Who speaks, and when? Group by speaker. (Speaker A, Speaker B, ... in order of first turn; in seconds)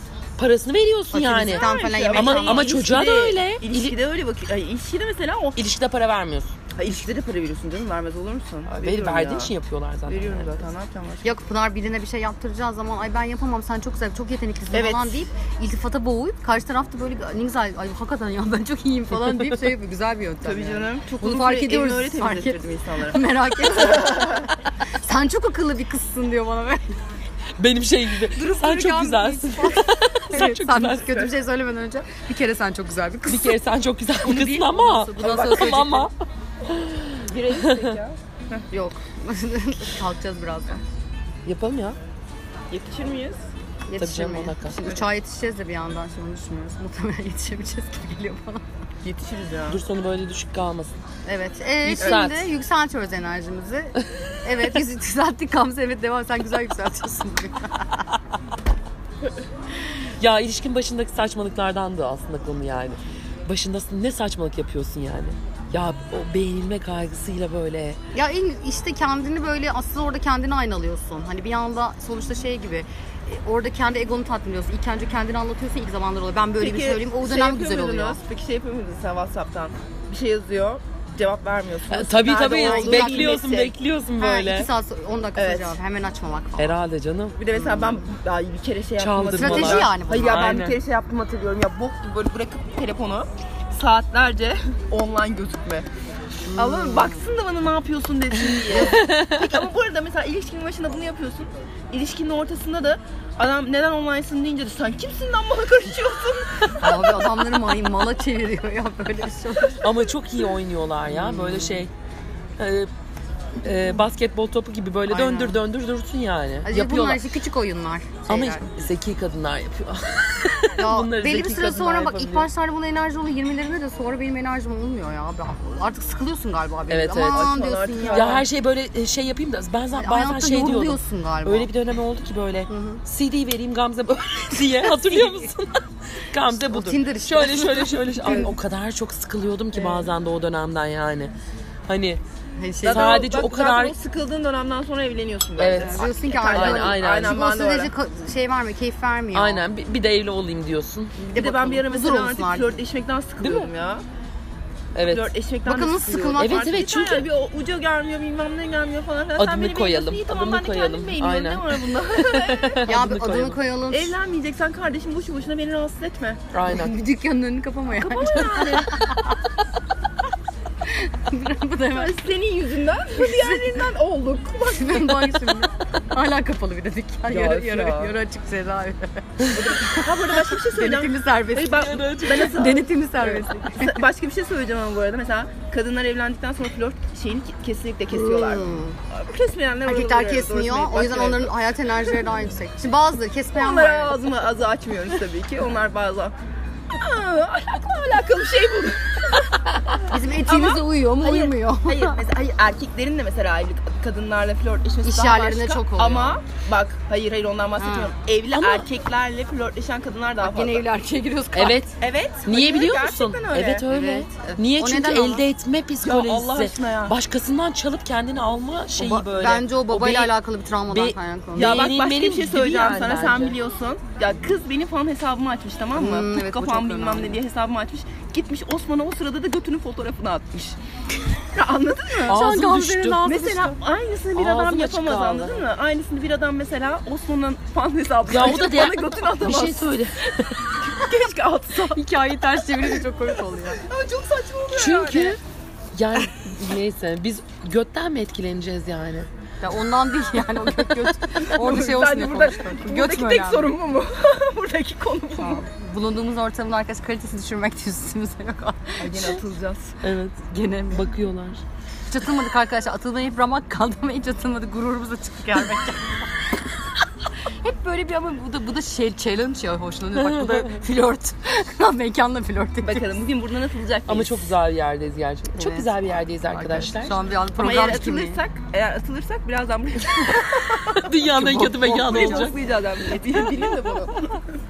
Speaker A: 0.4-4.0, 5.6-6.5, 8.7-10.6, 19.2-19.6, 27.6-31.2, 33.3-36.1, 36.6-38.0, 41.5-42.0, 44.0-44.8, 49.7-51.0, 51.8-52.4, 60.2-68.0, 81.9-84.7, 86.6-87.4, 89.0-90.8, 98.9-99.4, 109.8-111.9, 112.6-112.9, 113.6-117.2, 118.3-122.5, 126.9-127.5, 128.1-141.3, 141.9-142.2, 142.8-144.0, 145.6-147.4, 149.3-151.2, 153.4-153.7, 154.9-155.3, 156.4-157.3, 159.4-163.6, 166.5-166.9, 181.7-182.5, 208.5-208.9, 211.5-220.3, 220.9-223.6, 232.2-233.4, 234.3-235.6, 238.3-240.5, 244.7-245.4, 245.9-249.3, 260.0-261.6, 270.1-270.8, 274.1-277.2, 280.9-282.6
Speaker B: 1.1-2.8, 11.2-27.0, 28.4-33.6, 34.2-36.1, 38.7-40.8, 43.9-48.6, 51.2-58.1, 68.1-78.2, 82.5-83.4, 84.2-86.8, 87.5-87.9, 89.3-90.5, 96.5-97.2, 98.7-99.1, 106.8-109.8, 111.1-111.7, 115.1-115.6, 116.6-118.7, 120.8-128.4, 129.9-131.7, 132.7-133.0, 134.8-135.5, 136.5-138.5, 139.7-140.1, 142.6-143.3, 145.8-149.6, 151.2-152.7, 155.6-156.8, 162.8-164.1, 166.7-169.4, 170.8-172.3, 173.2-173.9, 174.7-184.0, 188.1-189.0, 189.8-194.2, 200.0-202.2, 205.0-206.4, 207.8-208.1, 210.4-211.9, 213.9-215.4, 218.9-221.9, 225.9-227.4, 232.2-233.8, 241.8-243.8, 249.6-253.7, 255.4-259.4, 260.5-261.1, 262.1-266.2, 267.4-273.2, 275.5-275.9, 276.5-278.4, 281.2-282.5
Speaker C: 1.4-5.7, 6.8-9.5, 10.1-11.3, 14.7-15.2, 20.4-23.2, 23.7-24.5, 37.2-38.6, 42.7-43.5, 49.0-49.8, 52.0-52.3, 76.6-83.7, 85.4-85.7, 87.4-95.8, 96.5-107.4, 127.2-128.4, 142.8-147.9, 151.3-154.0, 155.1-162.8, 163.9-166.4, 168.0-168.9, 171.9-175.6, 177.3-178.2, 179.5-191.5, 193.5-196.3, 196.9-199.4, 199.9-210.8, 212.0-213.8, 216.0-217.2, 221.6-230.7, 231.5-232.4, 233.2-240.0, 240.7-242.0, 243.8-245.4, 251.3-255.6, 259.0-259.9, 272.8-274.4, 277.6-284.4